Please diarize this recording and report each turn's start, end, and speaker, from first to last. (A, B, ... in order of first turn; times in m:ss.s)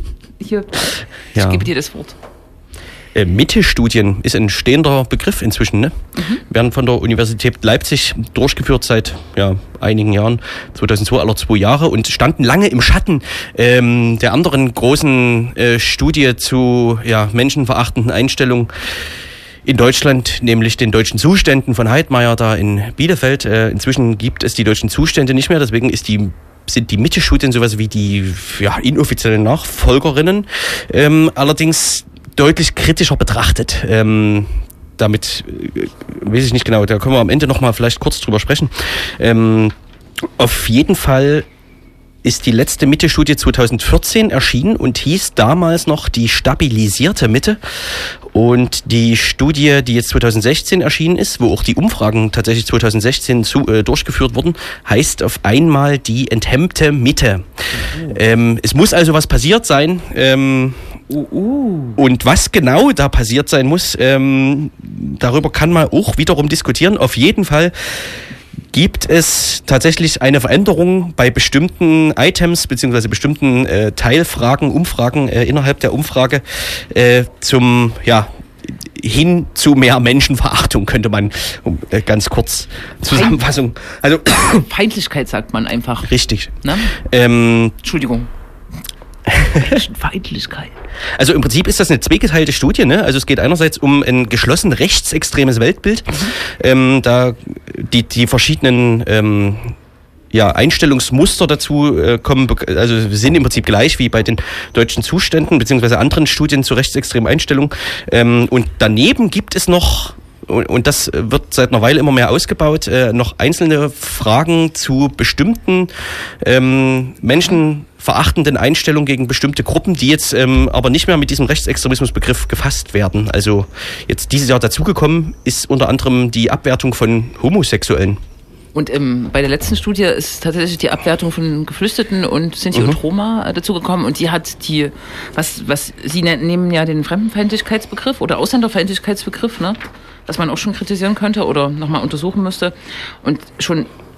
0:00.4-0:02.2 A
0:01.4-0:01.7 B
0:03.1-0:18.7 B
0:06.2-0:06.4 A
0:19.7-0:39.8 B
0:40.4-0:41.5 B
0:42.2-0:57.5 B
0:58.1-1:00.9 B
1:01.1-1:02.0 A
1:02.0-1:08.1 B
1:08.7-1:24.6 B
1:23.1-1:23.4 A
1:24.5-1:26.1 A
1:26.1-1:27.8 B
1:26.6-1:27.0 A
1:27.8-1:28.3 A
1:29.3-1:29.7 B
1:29.5-1:30.8 A
1:31.2-1:39.8 B
1:40.3-2:08.2 B
2:08.7-2:23.9 A
2:12.7-2:13.0 B